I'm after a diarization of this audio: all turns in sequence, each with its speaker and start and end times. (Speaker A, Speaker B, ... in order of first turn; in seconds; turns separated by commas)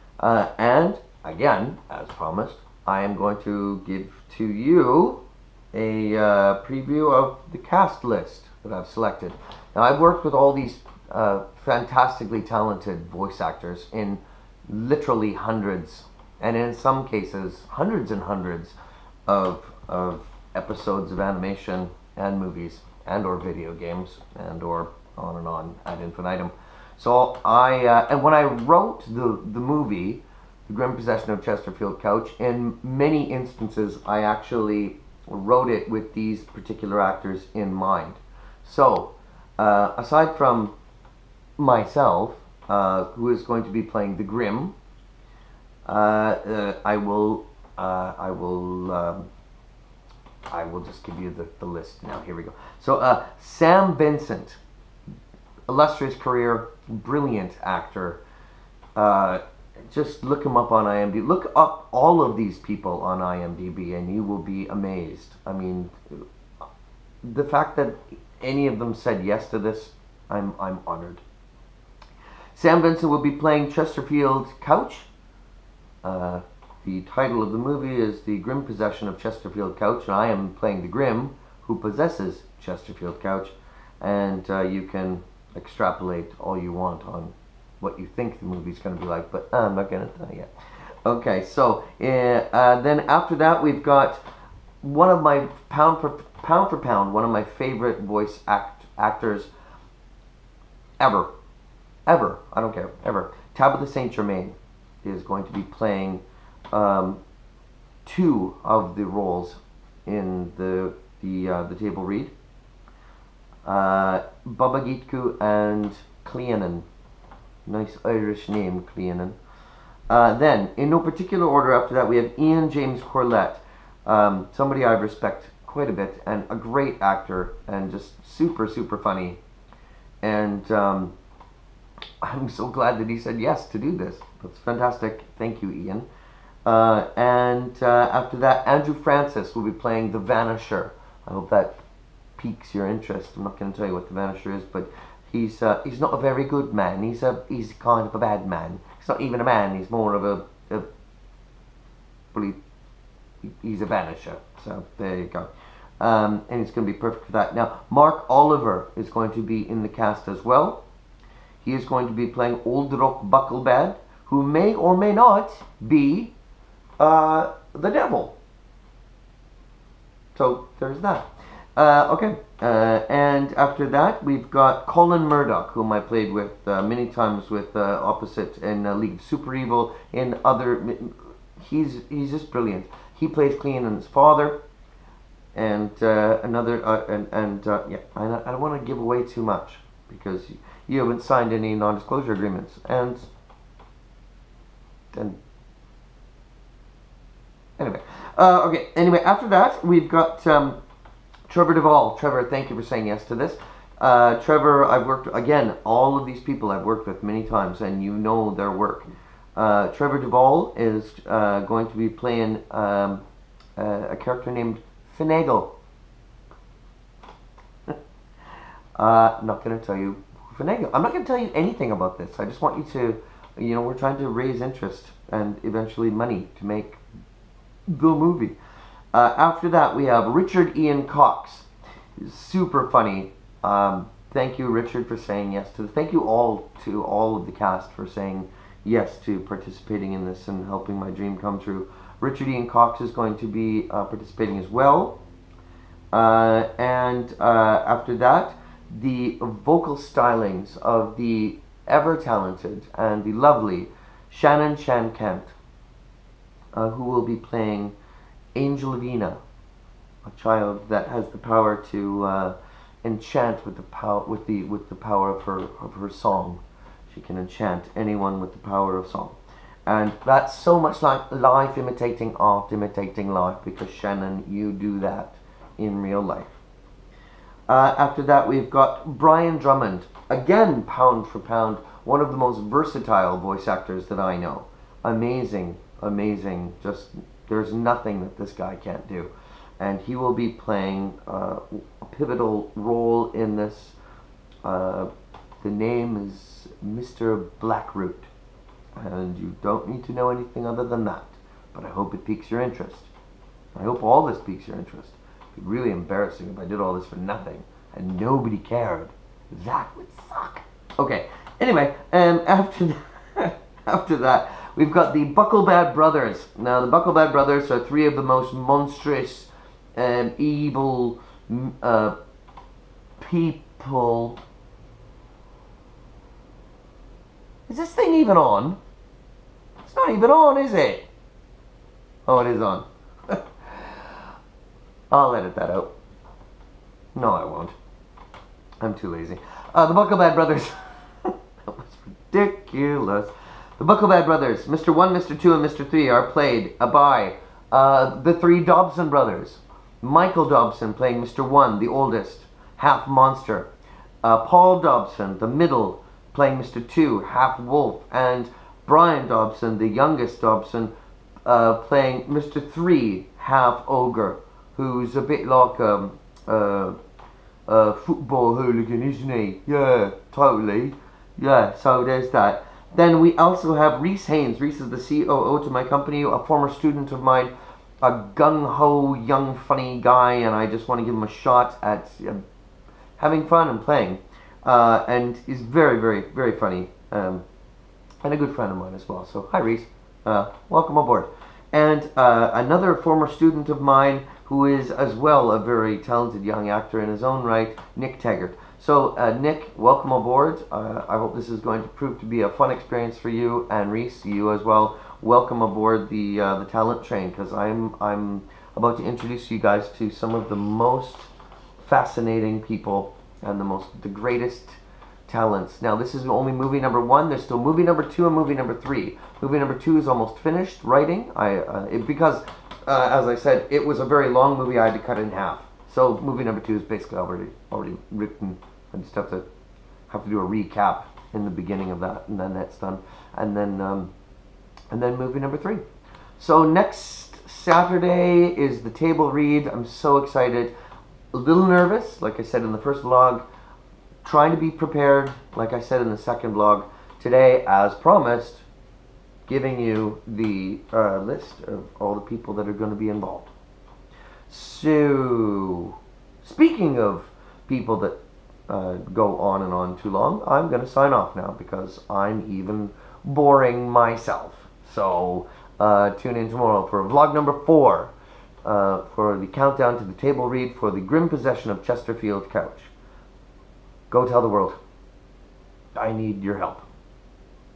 Speaker A: 0.2-5.2, Speaker A: 5.7-18.8, Speaker A: 19.3-40.7, Speaker A: 41.6-44.7, Speaker A: 45.8-49.3, Speaker A: 50.5-54.6, Speaker A: 55.7-58.2, Speaker A: 59.0-66.2, Speaker A: 67.2-71.2, Speaker A: 72.5-75.1, Speaker A: 76.0-90.5, Speaker A: 91.0-94.2, Speaker A: 94.8-99.5, Speaker A: 101.0-101.3, Speaker A: 102.0-107.2, Speaker A: 108.0-112.3, Speaker A: 113.6-116.9, Speaker A: 117.7-119.4, Speaker A: 120.1-129.4, Speaker A: 130.2-131.1, Speaker A: 132.2-136.1, Speaker A: 136.7-141.8, Speaker A: 142.4-150.9, Speaker A: 152.3-152.6, Speaker A: 153.4-160.8, Speaker A: 161.6-166.3, Speaker A: 167.0-168.4, Speaker A: 170.3-184.6, Speaker A: 185.5-193.3, Speaker A: 195.1-195.4, Speaker A: 197.8-200.8, Speaker A: 201.5-213.2, Speaker A: 213.8-215.7, Speaker A: 219.0-227.0, Speaker A: 227.9-228.6, Speaker A: 229.1-245.2, Speaker A: 246.1-255.6, Speaker A: 256.7-257.9, Speaker A: 258.6-259.4, Speaker A: 260.2-276.6, Speaker A: 277.7-294.0, Speaker A: 294.6-295.1, Speaker A: 295.6-298.3, Speaker A: 298.9-303.1, Speaker A: 303.8-322.1, Speaker A: 323.2-324.4, Speaker A: 327.7-328.8, Speaker A: 329.8-331.1, Speaker A: 332.2-333.9, Speaker A: 335.1-335.9, Speaker A: 337.1-337.8, Speaker A: 338.8-353.7, Speaker A: 354.2-360.9, Speaker A: 361.4-367.0, Speaker A: 367.7-382.4, Speaker A: 383.2-387.4, Speaker A: 388.2-429.4, Speaker A: 430.1-434.1, Speaker A: 434.9-435.8, Speaker A: 436.4-440.7, Speaker A: 441.3-443.4, Speaker A: 444.2-448.6, Speaker A: 449.4-453.5, Speaker A: 454.5-458.2, Speaker A: 458.7-468.1, Speaker A: 468.6-472.9, Speaker A: 474.1-474.8, Speaker A: 475.9-476.9